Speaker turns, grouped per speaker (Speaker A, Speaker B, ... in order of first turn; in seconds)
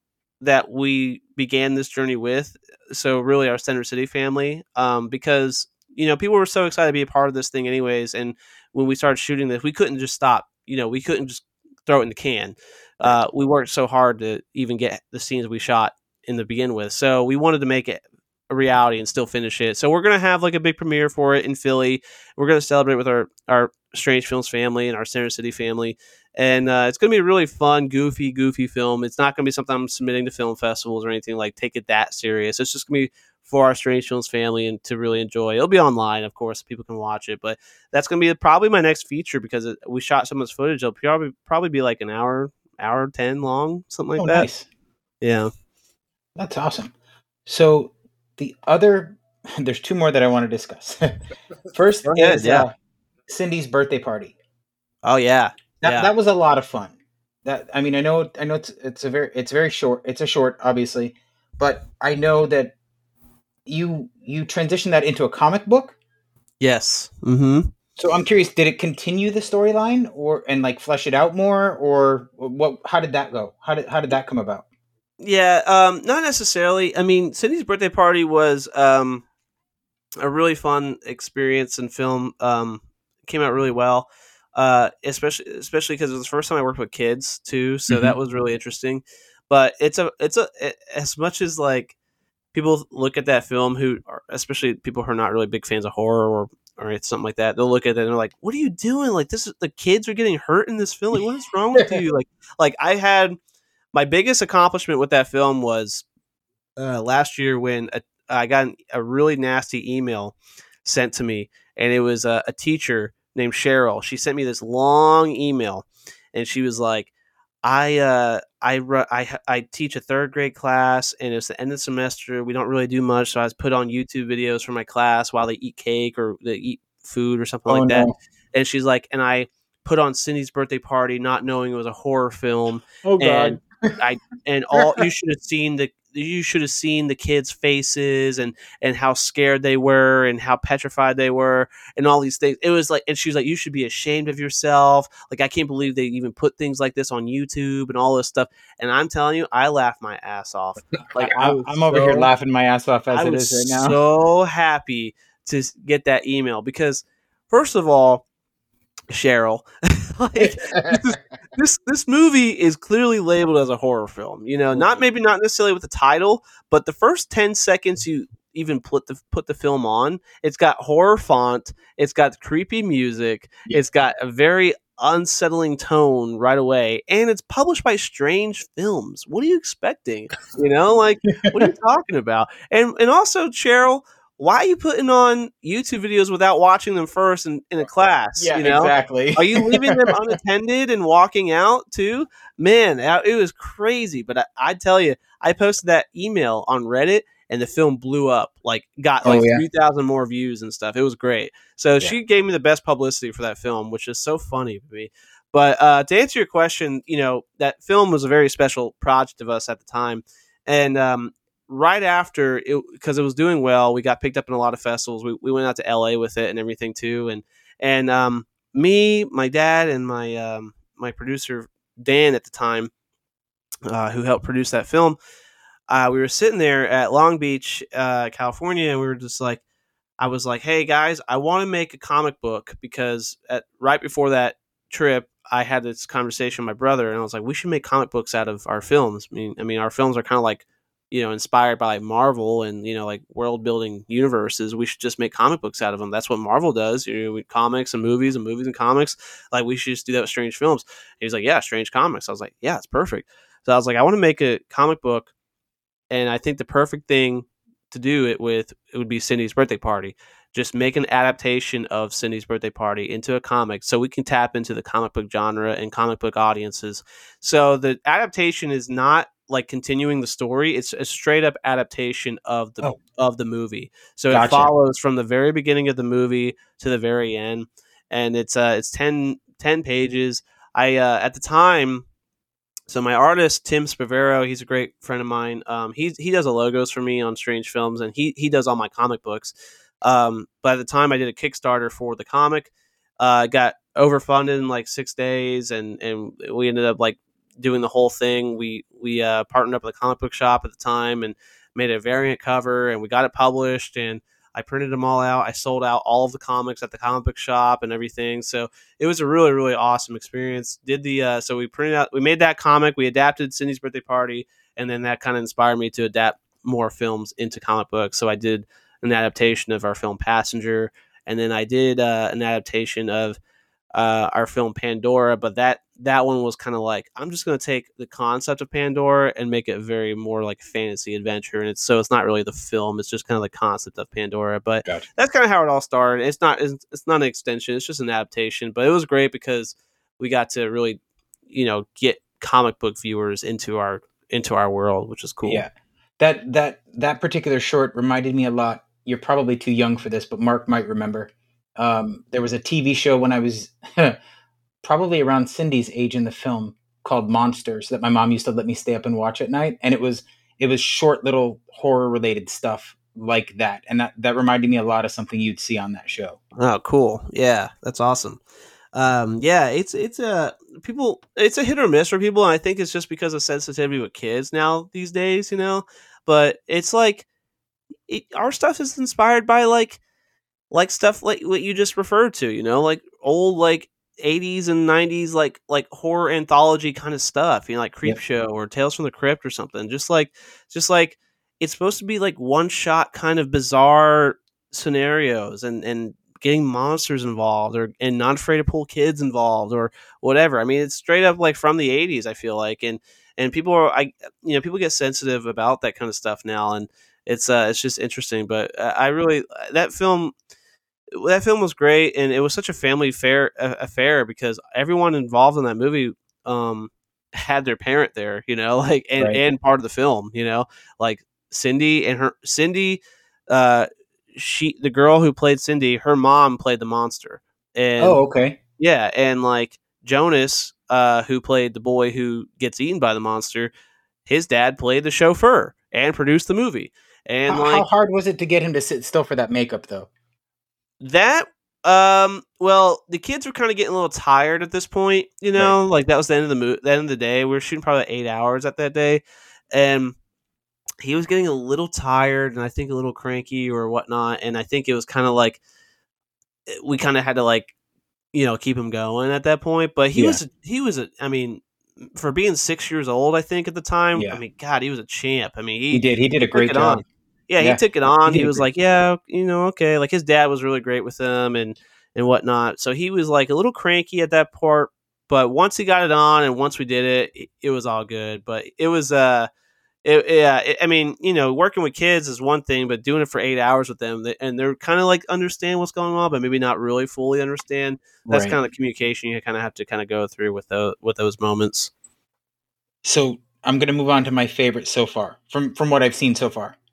Speaker A: 0.4-44.5, 45.2-45.5, 52.1-52.7, 55.0-56.1, 66.6-67.7, 75.2-79.2, 80.2-92.0, 92.5-103.4, 103.9-106.0, 106.8-117.1, 117.6-152.3, 153.1-158.2, 159.1-222.9, 223.9-225.2, 225.9-229.6, 230.2-255.3, 256.1-282.1, 282.9-323.4, 323.9-345.6, 366.6-368.4, 368.9-377.3, 378.1-380.0, 380.7-410.3, 411.1-428.2, 428.8-433.7, 434.3-437.9, 441.0-450.2, 451.0-455.6, 456.7-457.7, 458.3-479.5, 480.0-491.9
Speaker B: 44.2-44.7, 46.4-46.9, 47.5-51.2, 51.7-52.7, 53.3-54.4, 55.8-62.8, 63.7-66.0, 68.0-74.7, 87.9-88.2, 127.7-128.1, 133.0-134.0, 151.2-154.0, 160.4-161.0, 181.3-181.7, 188.4-190.2, 199.2-199.6, 274.3-274.7, 345.4-354.2, 354.8-366.4, 428.0-428.6, 437.5-440.1, 464.1-464.4, 465.9-467.0, 467.6-468.6, 488.3-488.6, 493.0-496.8